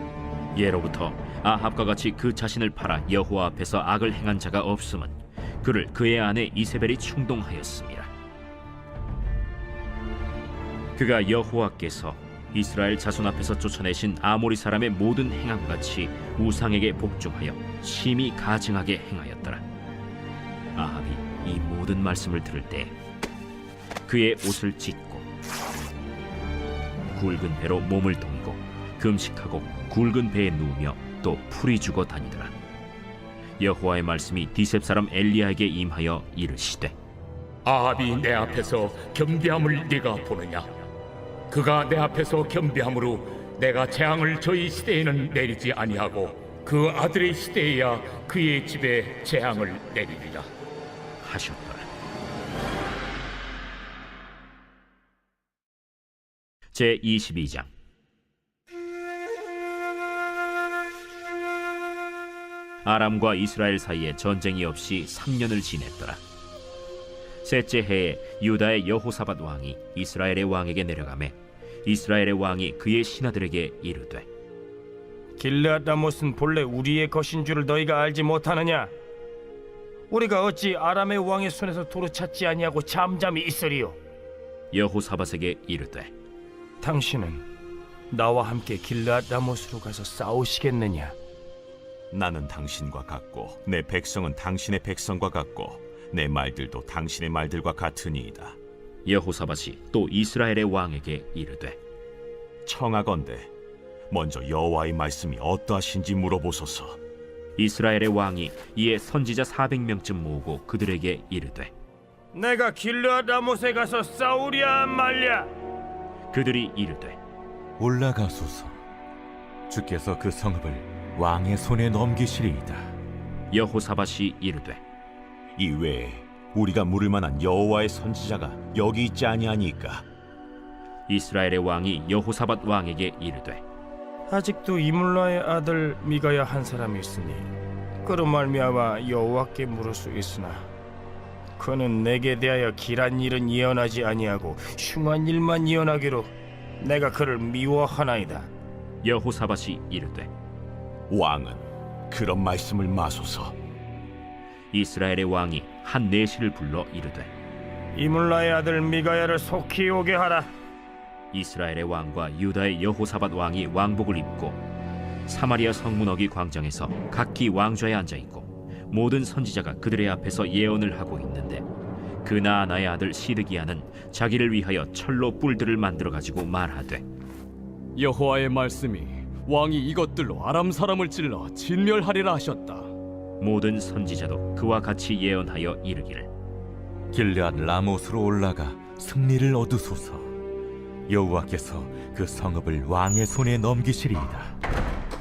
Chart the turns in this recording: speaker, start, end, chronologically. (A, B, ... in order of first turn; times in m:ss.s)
0:00.5-0:08.1 A
0:11.0-0:19.6 A
0:20.8-0:22.9 A
0:24.1-0:25.3 A
0:27.1-0:32.5 A
0:33.6-0:36.9 A
0:37.6-0:40.7 B
0:41.5-0:50.5 B
0:51.2-0:51.8 A
0:56.7-0:57.7 A
1:02.8-1:06.2 A
1:07.4-1:14.3 A
1:15.4-1:18.9 C
1:20.1-1:24.0 C
1:24.7-1:26.1 A
1:26.8-1:27.4 C
1:28.1-1:31.1 C
1:32.1-1:38.6 D
1:39.0-1:41.8 A
1:42.6-1:43.5 D
1:44.1-1:47.0 D
1:47.6-1:51.7 A
1:52.3-1:55.5 C
1:56.3-1:57.2 A
1:57.8-1:58.8 E
1:59.7-2:02.9 E
2:03.5-2:04.8 A
2:05.6-2:10.0 D
2:11.1-2:13.6 A
2:14.3-2:17.5 C
2:18.0-2:20.7 C
2:21.6-2:28.5 C
2:29.0-2:30.3 A
2:31.1-2:33.5 D
2:34.7-2:37.3 A
2:38.0-2:40.5 C
2:41.3-2:44.6 A
2:45.3-2:51.6 A
2:52.2-2:57.0 A
2:58.0-3:02.9 F
3:03.4-3:06.3 A
3:07.1-3:10.3 E
3:11.1-3:14.6 E